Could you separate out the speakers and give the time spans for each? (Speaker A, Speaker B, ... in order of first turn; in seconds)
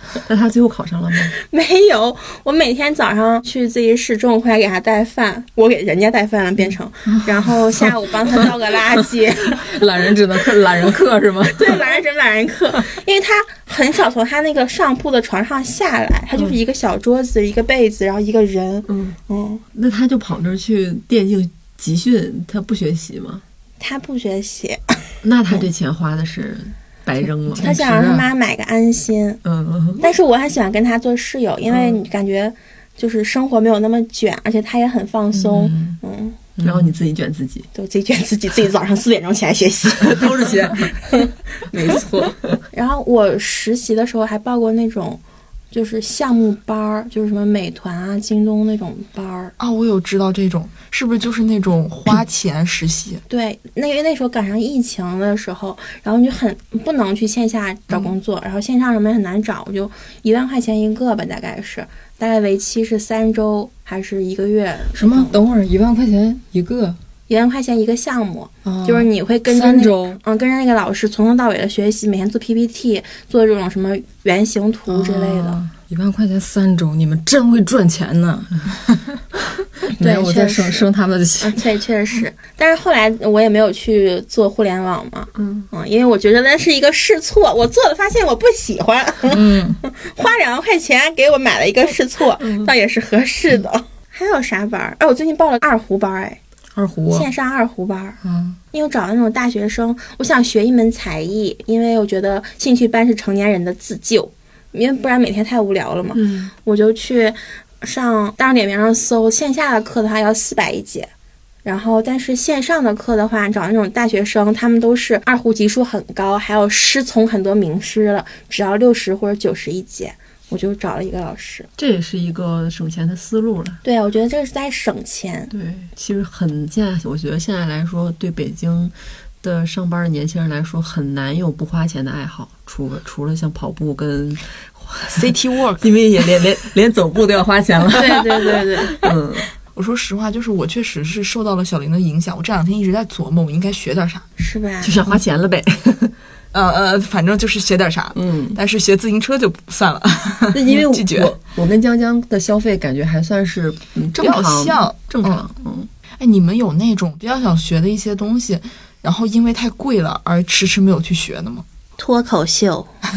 Speaker A: 0.3-1.3, 18.9-19.2, 19.7-23.4, 25.2-27.9, 29.4-30.1, 36.6-37.7, 40.0-40.9, 41.7-42.1, 85.4-85.7, 92.4-92.7, 106.2-106.5, 121.8-123.8, 125.5-139.5, 144.8-146.1, 148.1-148.6, 150.5-155.9
Speaker B: 1.4-9.8, 11.5-19.6, 23.8-25.1, 27.6-29.4, 30.0-36.4, 37.7-41.3, 41.8-45.2, 45.7-49.5, 53.3-65.4, 67.3-75.6, 80.0-80.9, 81.4-96.4, 97.1-98.2, 98.7-111.1, 111.7-121.7, 123.8-125.5, 137.9-139.0, 144.4-144.9, 162.0-162.9
Speaker C: 9.5-11.9, 27.6-28.3, 35.3-36.0, 36.6-36.9, 65.0-67.0, 68.6-70.2, 74.9-78.8, 79.9-81.6, 89.3-89.8, 96.7-97.3, 98.2-98.6
Speaker D: 49.6-53.2, 135.1-135.9, 139.8-144.2, 146.5-151.3, 154.2-155.5, 156.2-161.7